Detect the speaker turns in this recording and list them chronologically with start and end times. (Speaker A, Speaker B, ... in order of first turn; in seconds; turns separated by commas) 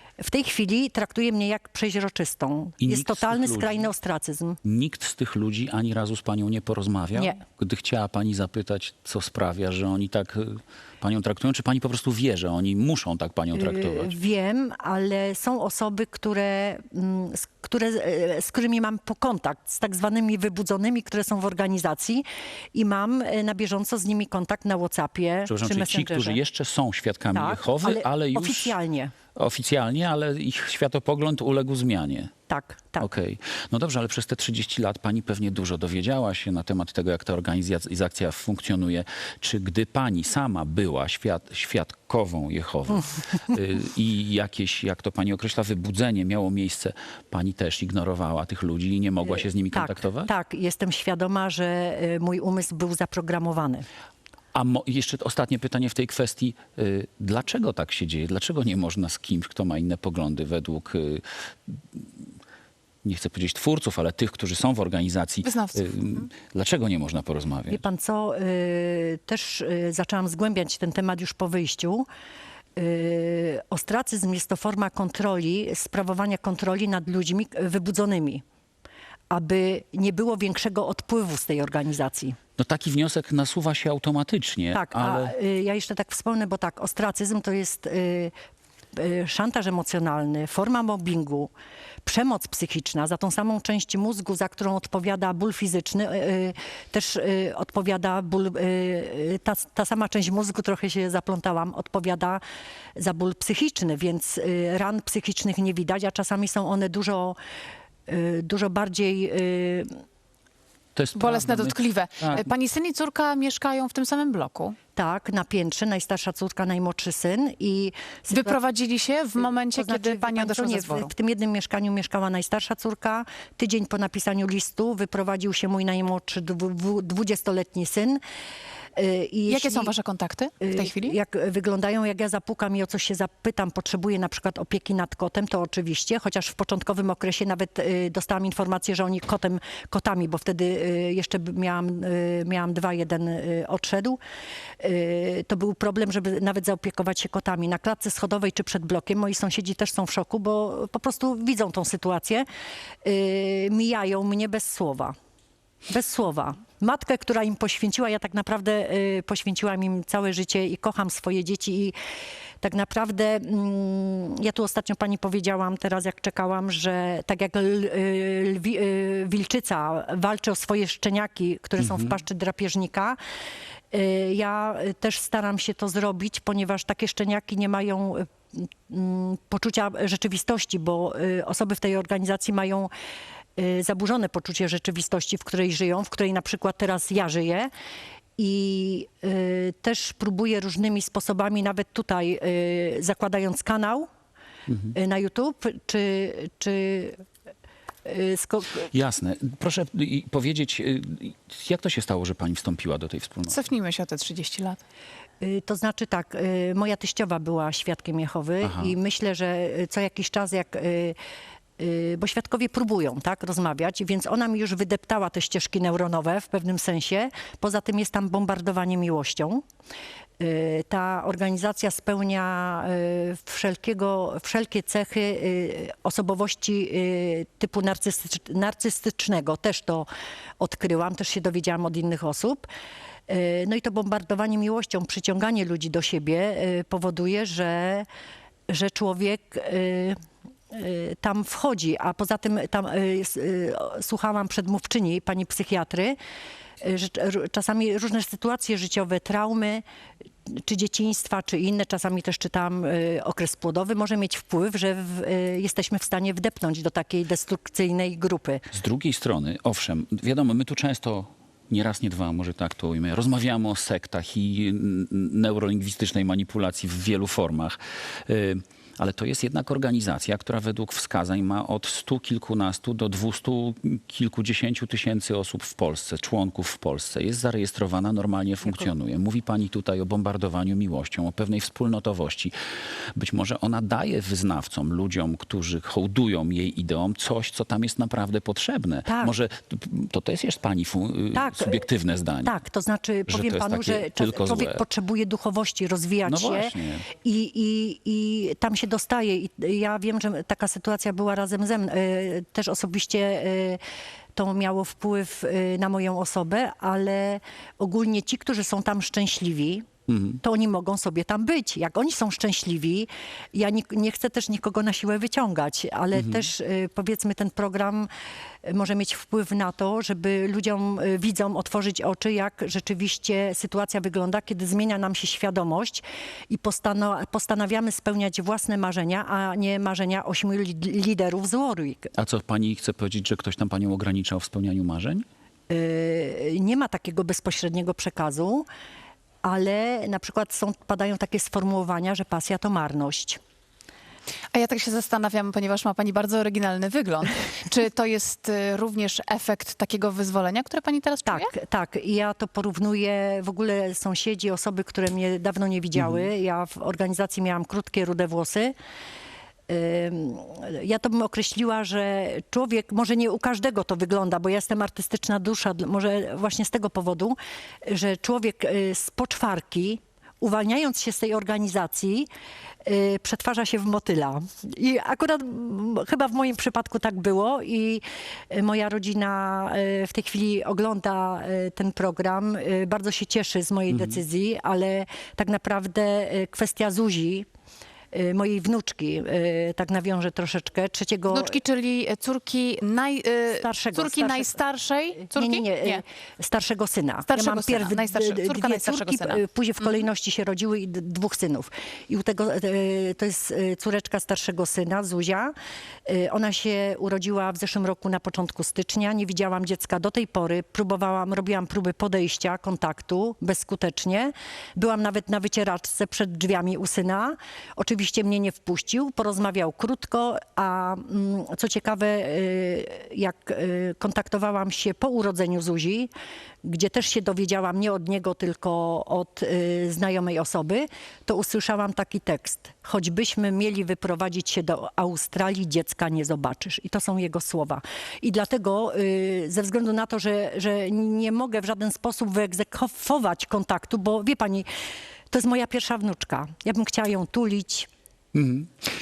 Speaker A: 0.2-4.6, Speaker B: 2.8-3.9, Speaker B: 4.6-14.1, Speaker A: 7.1-7.4, Speaker A: 13.5-26.4, Speaker B: 25.4-28.8, Speaker A: 27.3-29.1, Speaker B: 29.3-32.3, Speaker A: 32.5-33.0, Speaker B: 33.0-50.3, Speaker A: 49.2-53.9, Speaker B: 54.5-61.8, Speaker B: 63.0-67.8, Speaker C: 65.4-66.3, Speaker A: 67.7-72.1, Speaker A: 72.8-78.4, Speaker A: 79.3-82.3, Speaker B: 82.6-85.3, Speaker A: 84.7-88.3, Speaker A: 88.9-91.5, Speaker A: 92.0-102.4, Speaker A: 103.0-107.4, Speaker A: 108.1-109.9, Speaker B: 111.0-112.5, Speaker C: 111.2-114.8, Speaker A: 115.0-118.6, Speaker C: 118.3-121.1, Speaker A: 119.6-128.2, Speaker A: 128.9-129.9, Speaker C: 129.5-131.2, Speaker A: 130.6-144.2, Speaker A: 144.8-152.4, Speaker A: 153.0-155.1, Speaker A: 155.9-161.9, Speaker A: 162.6-173.2, Speaker B: 171.8-172.1, Speaker A: 173.9-182.9, Speaker A: 183.6-187.7, Speaker A: 188.4-194.1, Speaker A: 194.9-197.2, Speaker A: 198.0-198.9, Speaker B: 198.9-203.6, Speaker C: 203.5-204.8, Speaker A: 205.4-211.2, Speaker B: 208.6-208.9, Speaker A: 211.8-219.6, Speaker A: 220.4-230.1, Speaker A: 230.6-232.7, Speaker A: 233.3-238.1, Speaker A: 238.7-240.2, Speaker A: 240.7-246.2, Speaker A: 246.8-249.8, Speaker A: 250.5-258.6, Speaker B: 258.7-282.5, Speaker B: 283.1-292.5, Speaker A: 289.1-289.3, Speaker A: 291.3-291.9, Speaker A: 292.4-303.8, Speaker B: 293.3-294.8, Speaker B: 296.2-297.1, Speaker A: 304.4-309.8, Speaker B: 310.1-310.4, Speaker A: 310.4-318.1, Speaker B: 316.1-316.5, Speaker A: 318.6-332.1, Speaker B: 332.2-335.2, Speaker A: 335.7-338.6, Speaker A: 339.4-343.4, Speaker C: 344.5-351.5, Speaker A: 351.3-358.7, Speaker A: 359.7-372.3, Speaker A: 372.8-387.4, Speaker B: 383.9-384.2, Speaker A: 388.1-391.6, Speaker C: 391.3-396.0, Speaker A: 393.5-394.6, Speaker A: 395.2-405.5, Speaker C: 397.3-399.4, Speaker A: 406.1-426.1, Speaker A: 426.6-444.6, Speaker A: 445.3-447.9, Speaker B: 448.3-448.7